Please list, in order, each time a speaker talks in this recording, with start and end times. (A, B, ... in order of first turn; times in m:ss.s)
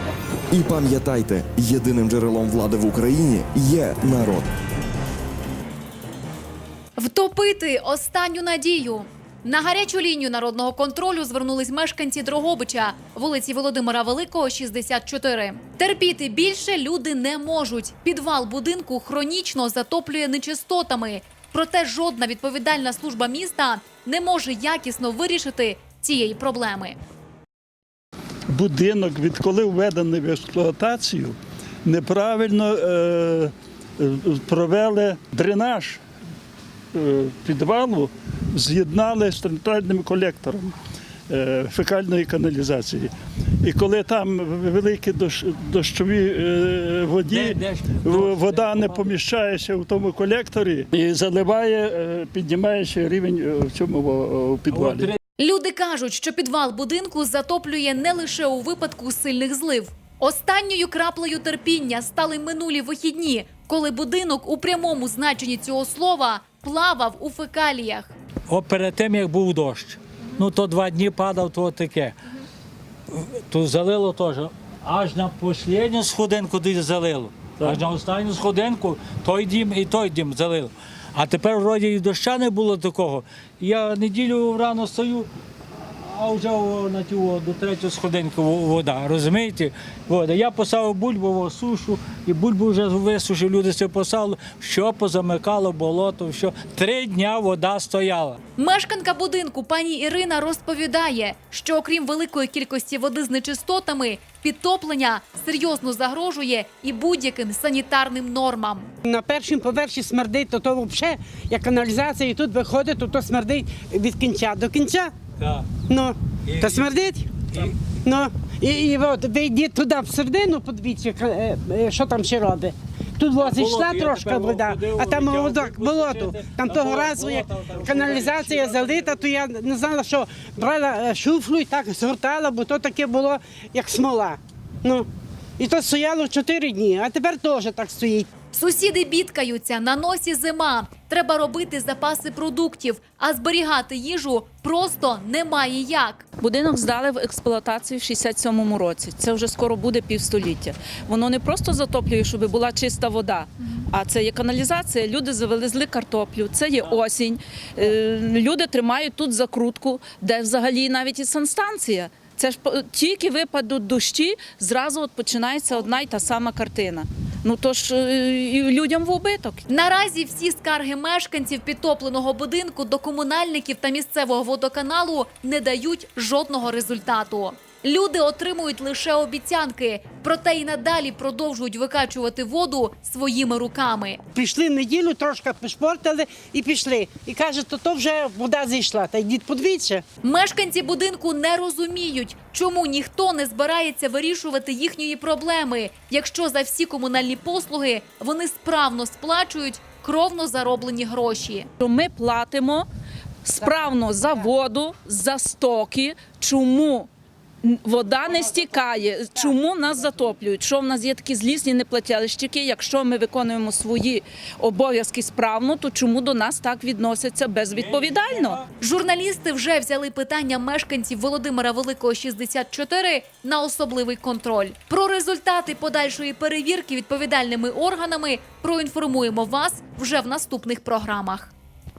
0:00.5-0:04.5 A
0:07.0-0:27.0 B
0:28.5-0:36.0 C
0:36.9-0:40.8 C
0:41.3-0:43.1 C
0:43.6-0:55.1 C
0:47.3-0:49.0 D
0:54.7-0:55.2 D
0:55.4-1:08.1 B
1:08.5-1:12.2 D
1:13.5-1:25.3 D
1:26.0-1:38.4 D
1:38.6-1:48.9 B
1:49.0-1:55.1 E
1:55.4-1:55.7 D
1:55.8-2:18.3 E
1:56.5-1:57.0 D
2:03.3-2:09.3 D
2:18.5-2:26.2 B
2:26.4-2:49.6 F
2:49.7-3:04.2 B
3:04.3-3:10.0 E
3:10.2-3:21.7 B
3:21.8-3:22.9 F
3:23.4-3:27.1 F
3:27.6-3:38.6 F
3:37.7-3:38.7 D
3:38.8-3:51.5 B